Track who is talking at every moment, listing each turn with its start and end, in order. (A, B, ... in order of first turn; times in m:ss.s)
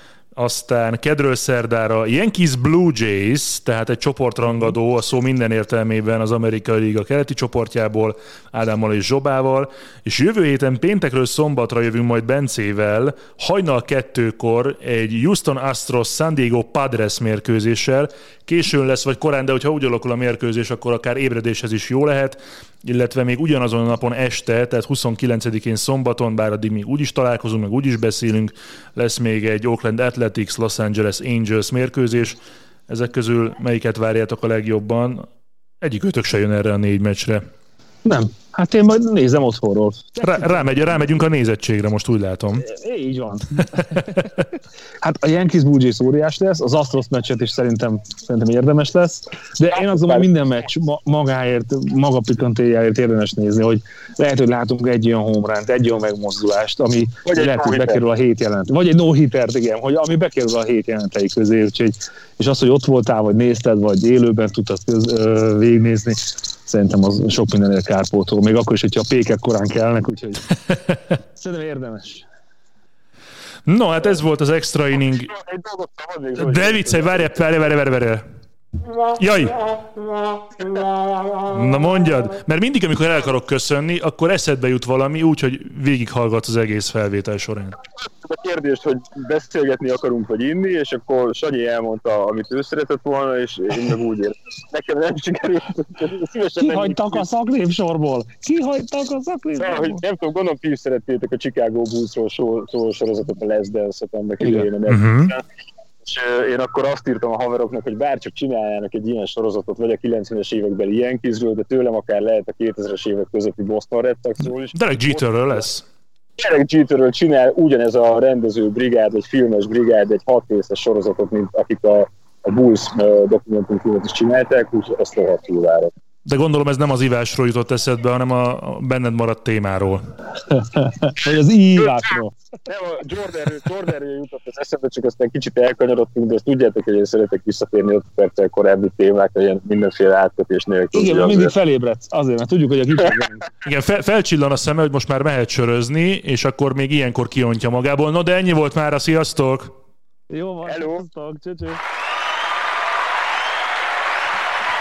0:00.4-0:35.3 A
0:35.8-0:37.4 A
0:38.0-0:41.0 B
0:40.2-0:42.6 A
0:42.6-0:44.4 B
0:45.0-1:10.5 B
0:49.9-0:50.2 C
0:57.3-0:58.0 C
1:11.3-1:12.3 B
1:13.7-1:15.3 A
1:15.0-1:17.6 C
1:16.4-1:18.2 A
1:19.2-1:19.6 A
1:21.5-1:27.8 A
1:28.0-1:37.2 C
1:36.6-1:40.0 B
1:39.6-1:45.4 C
1:44.4-1:44.7 B
1:44.9-1:45.3 A
1:46.0-1:55.6 C
1:54.7-1:55.8 A
1:56.4-2:05.9 C
2:06.3-2:10.1 A
2:10.5-2:12.3 B
2:12.7-2:21.5 C
2:20.9-2:23.5 B
2:23.6-2:29.7 A
2:30.3-2:31.8 B
2:30.7-2:31.0 C